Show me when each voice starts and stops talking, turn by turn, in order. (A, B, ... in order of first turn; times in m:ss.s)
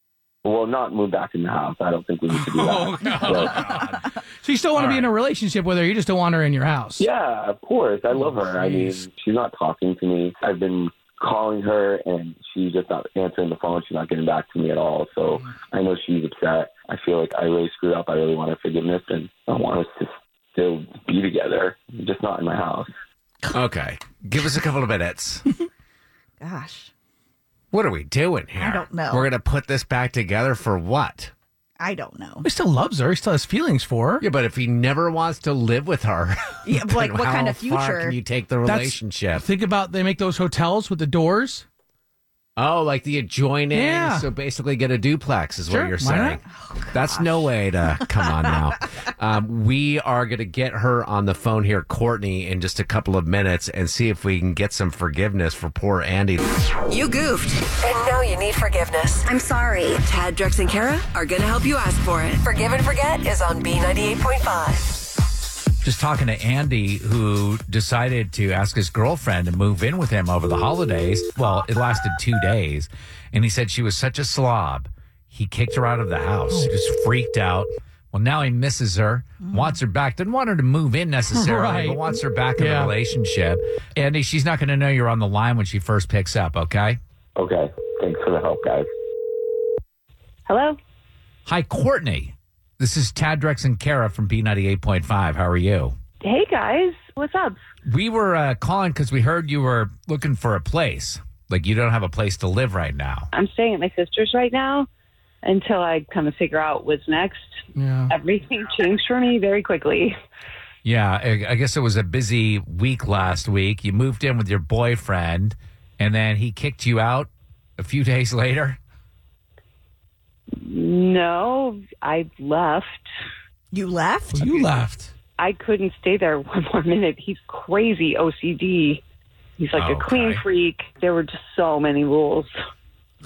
0:00.4-0:03.6 A
0:02.3-0:07.1 B
0:03.0-0:04.1 C
0:04.8-0:05.1 C
0:07.0-0:22.9 A
0:08.4-0:09.0 B
0:23.5-0:25.4 C
0:26.4-0:26.9 D
0:27.7-0:31.3 C
0:28.6-0:29.3 D
0:31.8-0:32.5 D
0:32.4-0:34.2 B
0:34.2-0:39.5 C
0:36.6-0:38.2 D
0:38.6-0:41.6 B
0:42.6-0:46.4 C
0:43.7-0:44.3 B
0:45.7-0:46.4 B
0:46.4-0:48.2 D
0:46.9-0:56.4 C
0:56.9-1:05.0 E
1:05.8-1:27.0 C
1:21.3-1:22.9 B
1:27.4-1:28.9 A
1:30.5-1:30.8 F
1:31.5-1:36.0 C
1:36.2-1:37.6 F
1:37.9-1:43.3 C
1:43.3-1:44.9 F
1:45.4-1:47.5 F
1:47.8-1:48.1 B
1:48.1-1:50.1 F
1:50.8-1:58.8 C
2:00.6-2:03.1 F
2:03.7-2:04.6 D
2:04.3-2:05.1 B
2:05.4-2:09.0 F
2:09.6-2:12.5 F
2:09.8-2:10.4 C